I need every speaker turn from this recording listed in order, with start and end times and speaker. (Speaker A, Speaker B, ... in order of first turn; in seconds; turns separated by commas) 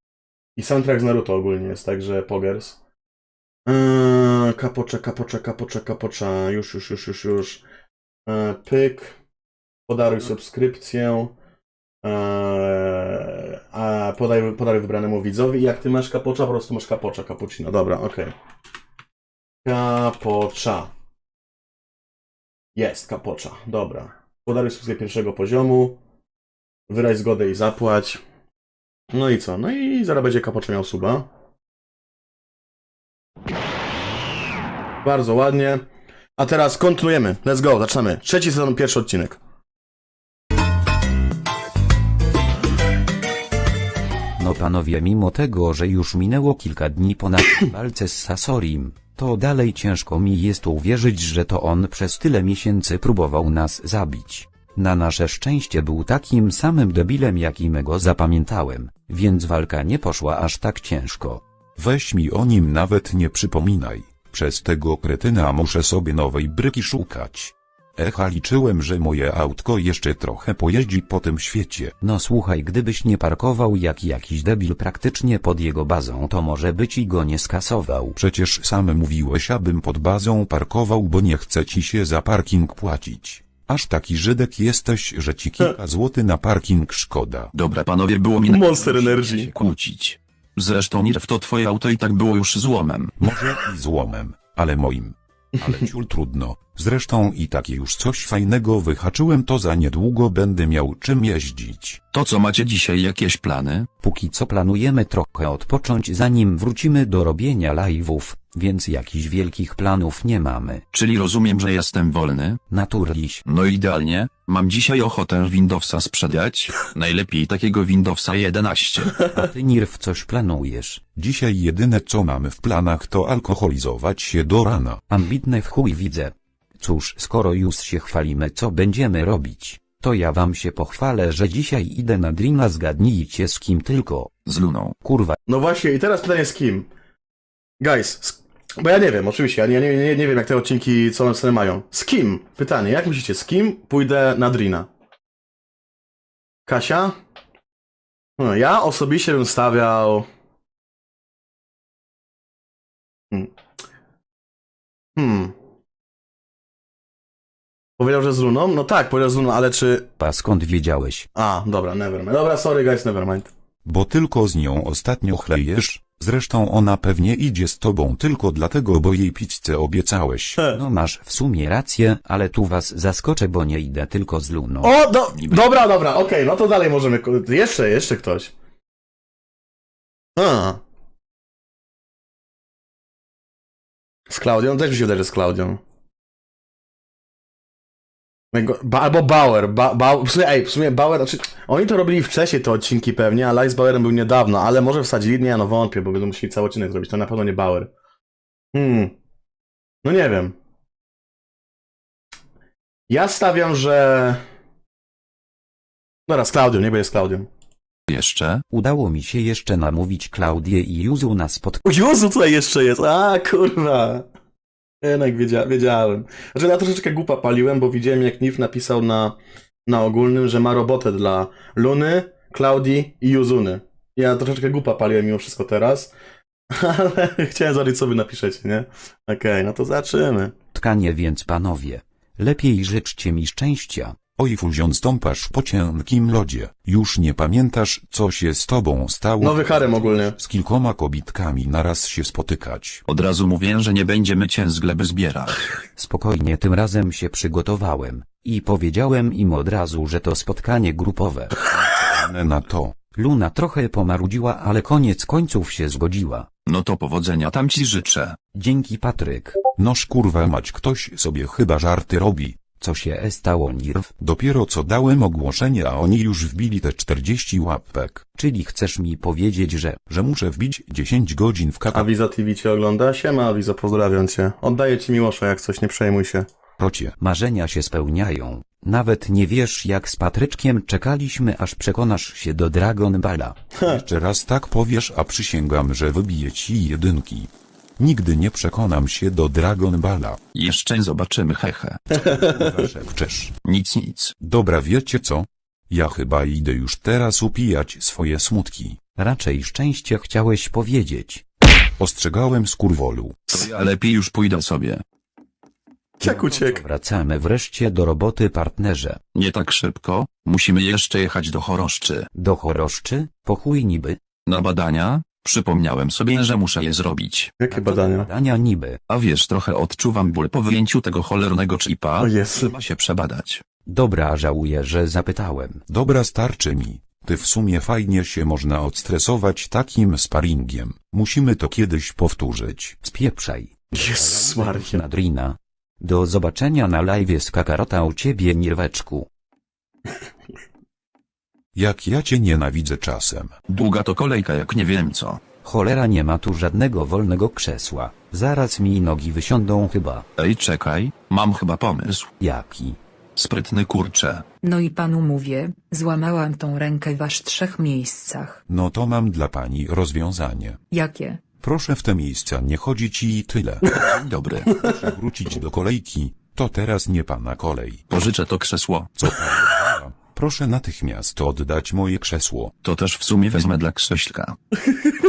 Speaker A: 0.6-2.8, Speaker A: 3.7-7.6, Speaker A: 8.3-9.2, Speaker A: 9.9-11.3, Speaker A: 12.0-18.3, Speaker A: 19.6-20.9, Speaker A: 22.8-26.0, Speaker A: 26.9-28.2, Speaker A: 29.1-31.3, Speaker A: 35.0-35.8, Speaker A: 36.4-39.4, Speaker B: 44.4-61.4, Speaker C: 61.8-72.0, Speaker B: 72.0-78.2, Speaker C: 78.2-87.5, Speaker D: 87.5-93.3, Speaker A: 88.5-89.5, Speaker C: 93.2-102.0, Speaker D: 102.1-103.9, Speaker B: 104.0-110.8, Speaker D: 110.9-112.6, Speaker B: 112.7-113.4, Speaker D: 113.5-119.3, Speaker B: 119.3-121.0, Speaker C: 121.2-125.0, Speaker B: 125.1-134.3, Speaker D: 134.5-134.9, Speaker B: 135.0-135.4, Speaker A: 135.5-136.9, Speaker A: 137.8-144.9, Speaker A: 146.7-147.2, Speaker A: 148.4-150.3, Speaker A: 155.2-155.5, Speaker A: 158.0-160.1, Speaker B: 160.2-161.3, Speaker A: 161.3-163.5, Speaker C: 163.8-170.6, Speaker B: 170.7-175.0, Speaker A: 174.8-178.5, Speaker D: 175.3-175.7, Speaker A: 180.4-180.8, Speaker A: 184.3-185.8, Speaker A: 188.5-197.9, Speaker A: 198.7-199.1, Speaker A: 200.0-200.6, Speaker A: 203.1-204.4, Speaker A: 206.3-207.5, Speaker D: 208.1-208.6, Speaker B: 208.7-211.8, Speaker A: 211.9-214.3, Speaker A: 215.0-226.1, Speaker A: 226.7-230.5, Speaker B: 230.7-234.2, Speaker C: 234.4-243.0, Speaker A: 239.4-240.4, Speaker D: 243.1-245.7, Speaker B: 246.0-252.1, Speaker C: 251.9-253.0, Speaker B: 253.1-256.5, Speaker D: 256.7-258.4, Speaker B: 258.6-259.6, Speaker C: 259.8-262.7, Speaker B: 262.8-264.1, Speaker C: 264.2-268.3, Speaker B: 268.4-270.0, Speaker C: 270.1-272.1, Speaker A: 271.9-276.5, Speaker C: 276.8-277.1, Speaker B: 277.2-283.6, Speaker C: 283.9-290.4, Speaker D: 290.5-292.0, Speaker C: 292.1-293.6, Speaker D: 293.6-294.3, Speaker C: 294.4-299.0, Speaker B: 299.2-301.4, Speaker C: 302.0-303.6, Speaker D: 303.5-305.0, Speaker A: 306.2-306.8, Speaker B: 306.2-309.2, Speaker D: 309.4-312.3, Speaker B: 312.4-314.2, Speaker D: 314.5-317.5, Speaker A: 317.6-318.3, Speaker B: 317.7-319.0, Speaker D: 319.1-323.6, Speaker A: 322.2-322.8, Speaker B: 323.9-325.8, Speaker C: 325.9-333.0, Speaker B: 333.0-339.3, Speaker A: 333.9-335.0, Speaker C: 341.8-343.6, Speaker D: 343.7-345.4, Speaker B: 345.6-350.2, Speaker D: 350.4-352.3, Speaker B: 352.4-353.0, Speaker D: 353.4-354.4, Speaker E: 354.6-358.6, Speaker C: 358.7-360.8, Speaker E: 360.9-361.4, Speaker C: 361.6-364.0, Speaker D: 363.9-364.7, Speaker C: 364.7-368.1, Speaker D: 368.1-369.1, Speaker C: 369.1-372.8, Speaker D: 372.8-374.6